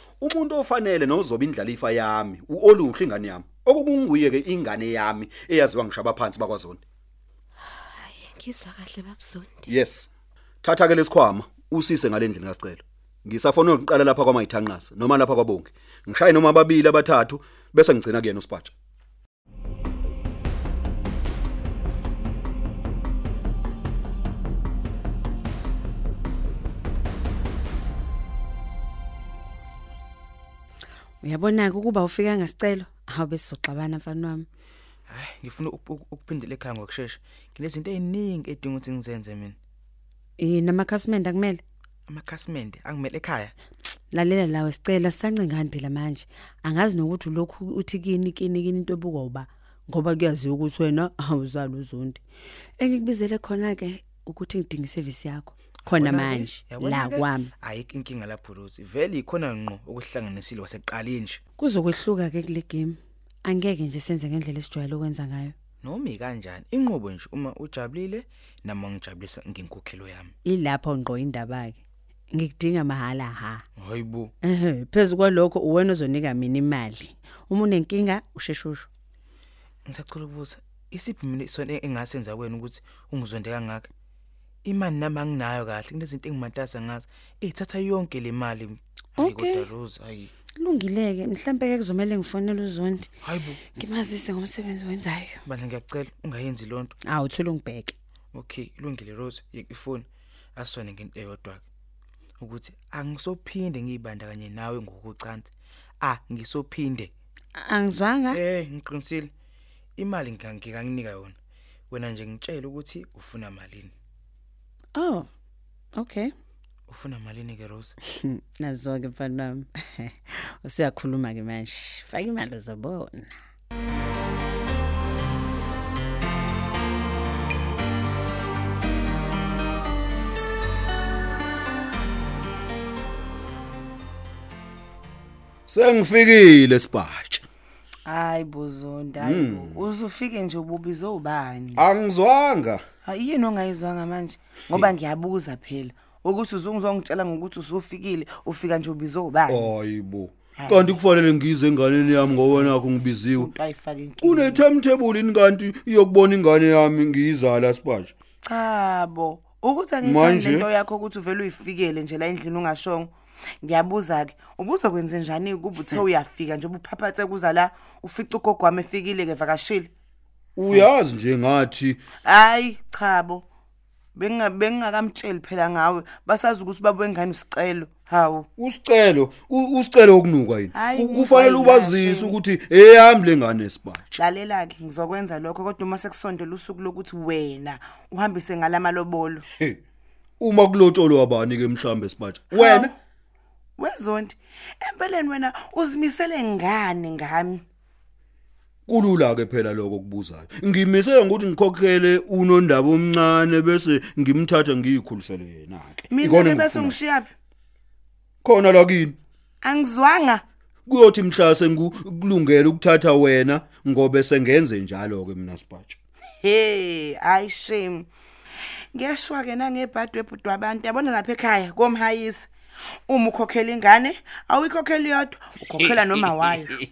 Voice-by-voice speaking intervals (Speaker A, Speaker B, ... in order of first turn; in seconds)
Speaker A: 0.2-6.8, 9.7-10.1, 10.6-18.7, 135.7-137.4, 139.2-139.8, 141.8-142.8, 149.5-153.5, 154.2-158.1, 160.0-160.7, 170.6-172.0, 178.6-184.2, 190.4-192.9, 198.9-207.0, 208.4-209.2, 210.9-216.0
Speaker B: 7.6-9.7
Speaker C: 31.2-34.5, 40.4-41.6, 44.1-52.2, 52.8-57.5, 61.6-65.5, 70.5-71.8, 72.3-73.6, 74.4-78.9, 89.2-89.7, 90.6-93.1, 93.7-95.4, 97.0-97.9, 107.6-108.4, 114.9-115.3, 115.9-116.3, 118.2-123.3
Speaker D: 35.1-39.5, 42.1-43.5, 55.8-61.4, 65.8-70.3, 73.8-74.3, 79.8-83.9, 84.6-90.3, 93.2-93.6, 95.5-96.9, 98.3-101.6, 102.4-107.1, 108.3-109.3, 110.0-111.3, 111.9-113.9, 116.9-117.9
Speaker E: 138.1-141.8, 143.0-149.7, 150.6-151.0, 153.3-154.6, 158.4-163.1, 163.6-169.9, 172.2-173.4, 174.2-178.5, 180.7-182.3, 184.2-189.4, 192.5-192.9, 193.8-197.6, 206.1-207.3, 209.6-210.4, 216.4-218.1, 218.9-222.5, 223.1-226.7